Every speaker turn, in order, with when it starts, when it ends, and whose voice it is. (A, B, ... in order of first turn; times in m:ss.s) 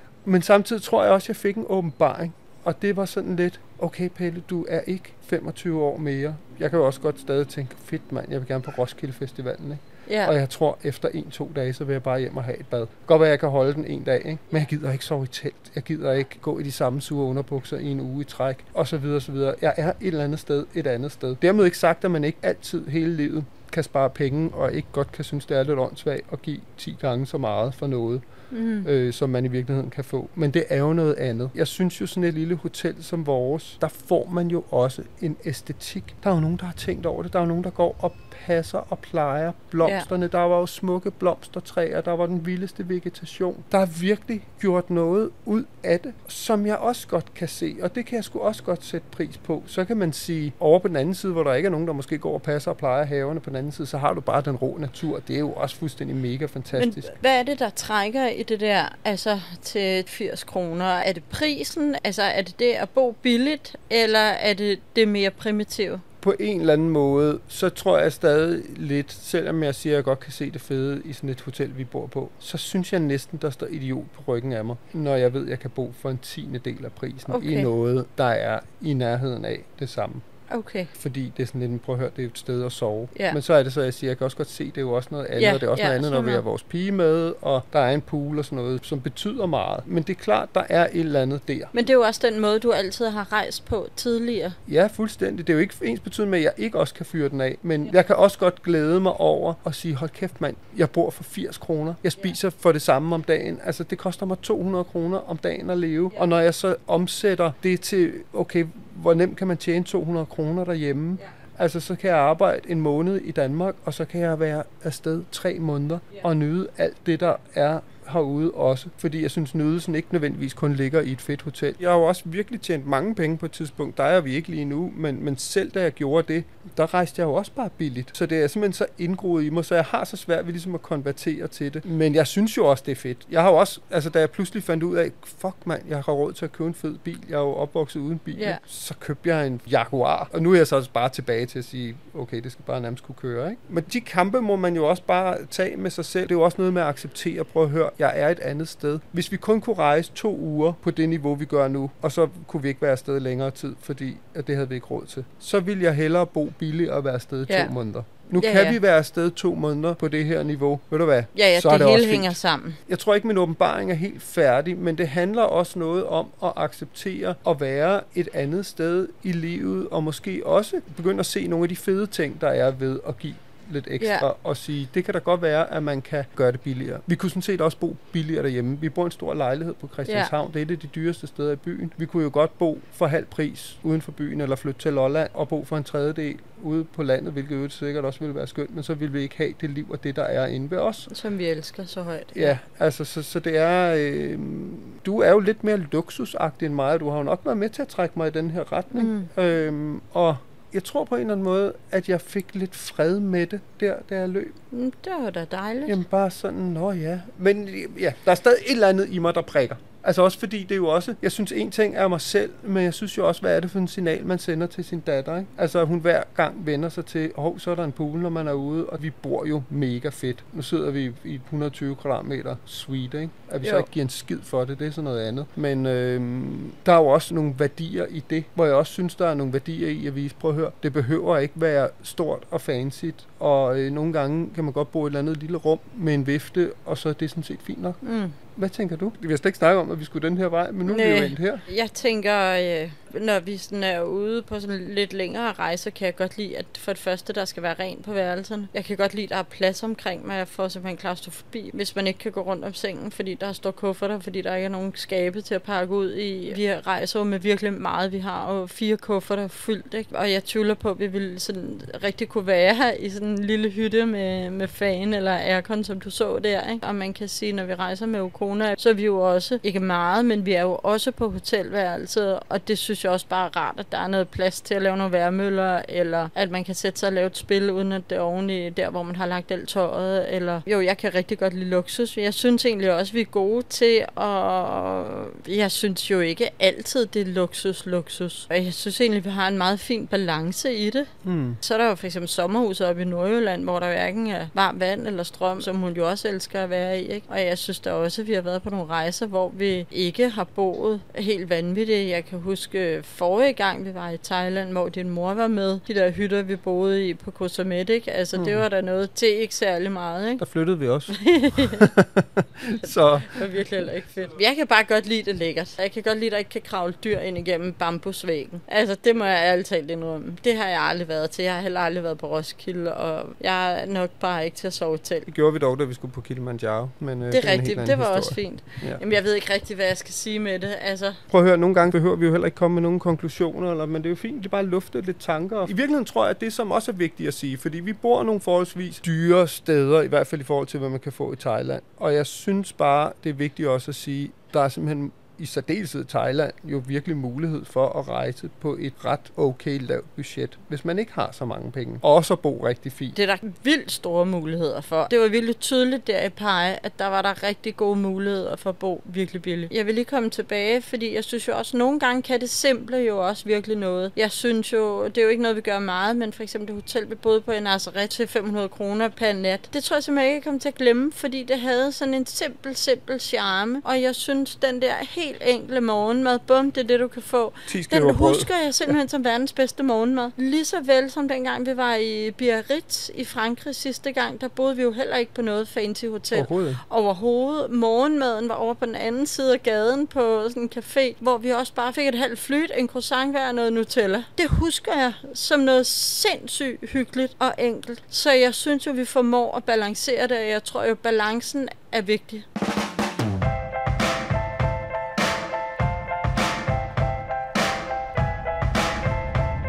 0:00.2-0:28.2 A
0:10.1-0:10.3 B
0:28.5-0:28.9 B
0:28.8-0:57.1 A
0:56.7-1:06.0 B
1:06.2-1:20.2 A
1:17.3-1:17.7 B
1:20.5-1:20.9 B
1:20.9-1:31.7 A
1:25.4-1:26.4 B
1:31.7-1:34.6 B
1:34.7-3:11.1 A
2:18.4-2:18.6 B
2:38.4-2:38.8 B
2:41.4-2:42.8 B
2:54.0-2:54.2 B
3:00.1-3:00.3 B
3:11.1-3:12.6 B
3:12.3-3:24.6 A
3:18.9-3:19.3 B
3:24.7-3:26.0 B
3:25.9-3:58.0 A
3:43.6-3:43.9 B
3:58.0-3:58.4 B
3:58.6-4:01.6 A
4:00.8-4:51.1 B
4:51.2-4:51.6 A
4:51.6-5:10.4 B
5:08.4-5:08.6 A
5:10.4-5:13.6 A
5:11.1-5:11.9 B
5:12.8-5:25.3 B
5:25.3-5:29.0 A
5:27.3-5:31.2 B
5:31.3-5:53.2 A
5:53.2-6:42.5 B
6:17.7-6:18.5 A
6:26.3-6:26.8 A